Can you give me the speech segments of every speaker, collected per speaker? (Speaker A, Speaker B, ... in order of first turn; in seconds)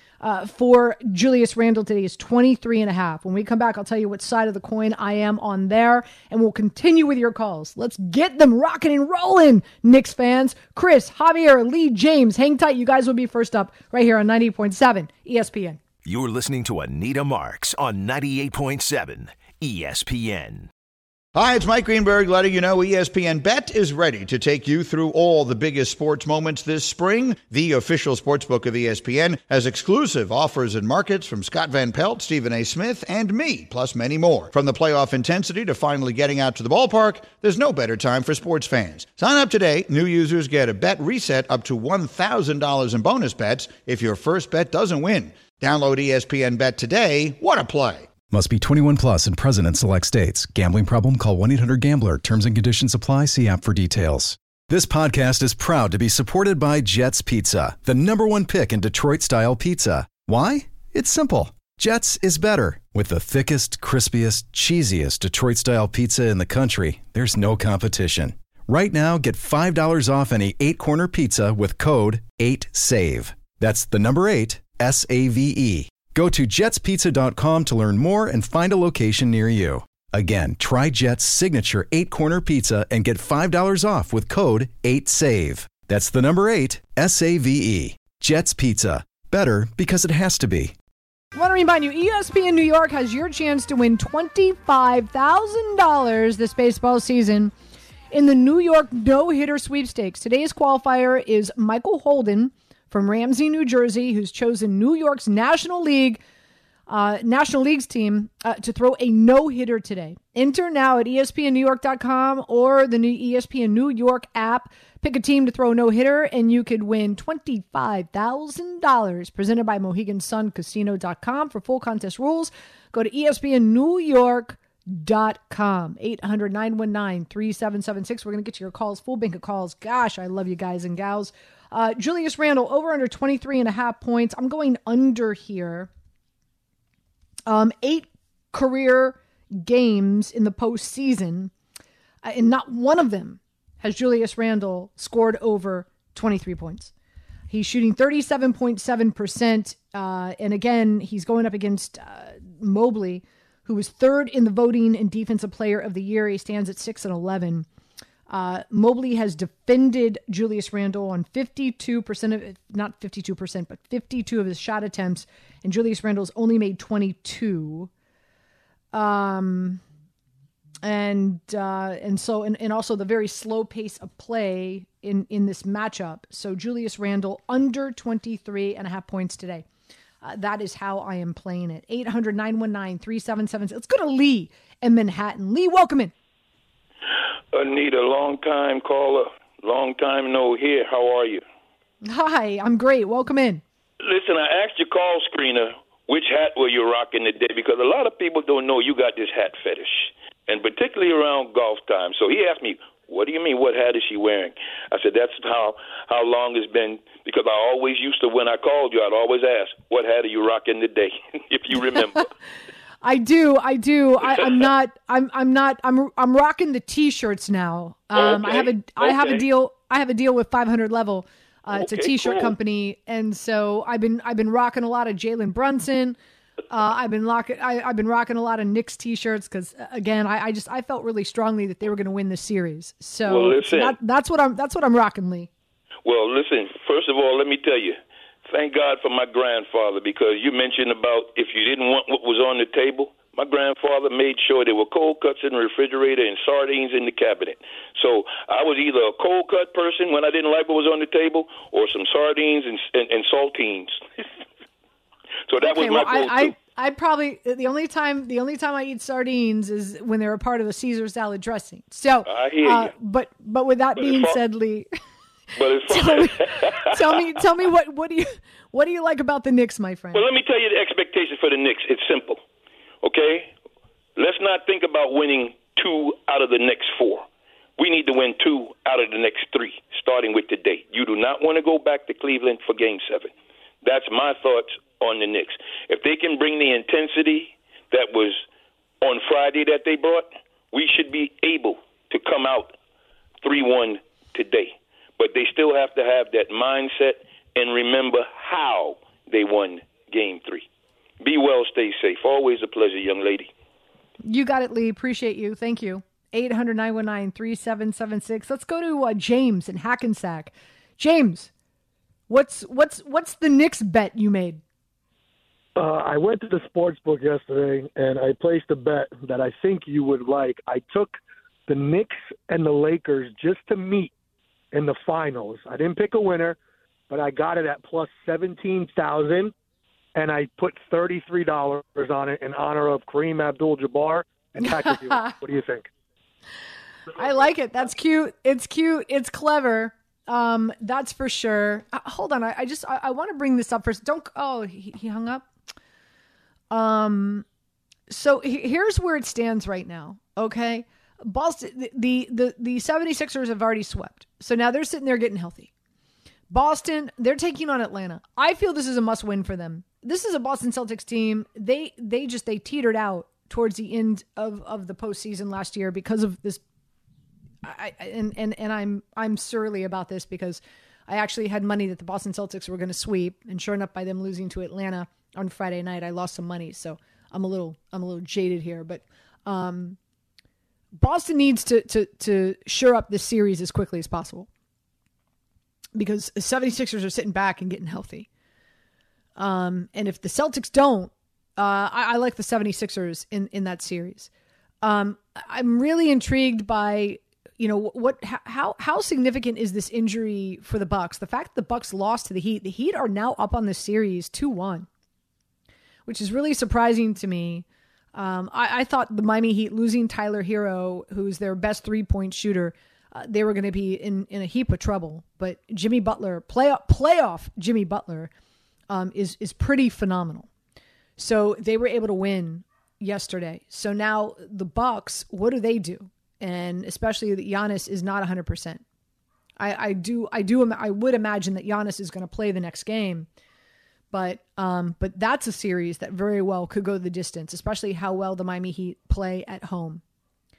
Speaker A: 0.2-15.8, 91.3-97.5, 98.1-106.2, 106.9-135.9, 137.5-141.5, 142.2-146.9, 147.5-157.7, 158.3-167.9, 168.9-169.8, 170.8-179.7, 180.2-186.1, 192.0-193.6, 213.0-226.2, 226.7-235.5, 255.6-264.9, 265.9-270.2, 304.2-311.5, 312.3-314.6, 334.6-335.3, 337.1-345.5, 346.7-347.4, 348.1-355.7, 356.5-366.6, 367.6-380.0, 381.0-384.5, 385.9-388.3, 389.4-394.3, 394.8-404.9, 406.1-418.3, 418.9-420.5, 421.2-428.8, 429.6-433.3, 434.1-440.0
Speaker B: 16.0-20.7
Speaker C: 21.3-48.1
Speaker D: 48.3-90.7
Speaker E: 187.5-191.4, 194.0-212.3, 218.1-219.4, 221.8-222.5, 233.2-233.9, 236.0-254.2, 255.5-256.5, 262.3-262.9, 264.0-264.3, 265.6-266.9, 270.1-272.4, 273.0-273.5, 274.2-277.2, 277.8-283.3, 283.8-288.4, 289.0-292.7, 293.4-300.6, 301.2-303.5
Speaker F: 315.8-321.1, 321.7-324.1, 324.7-326.5, 327.1-329.5, 330.1-335.9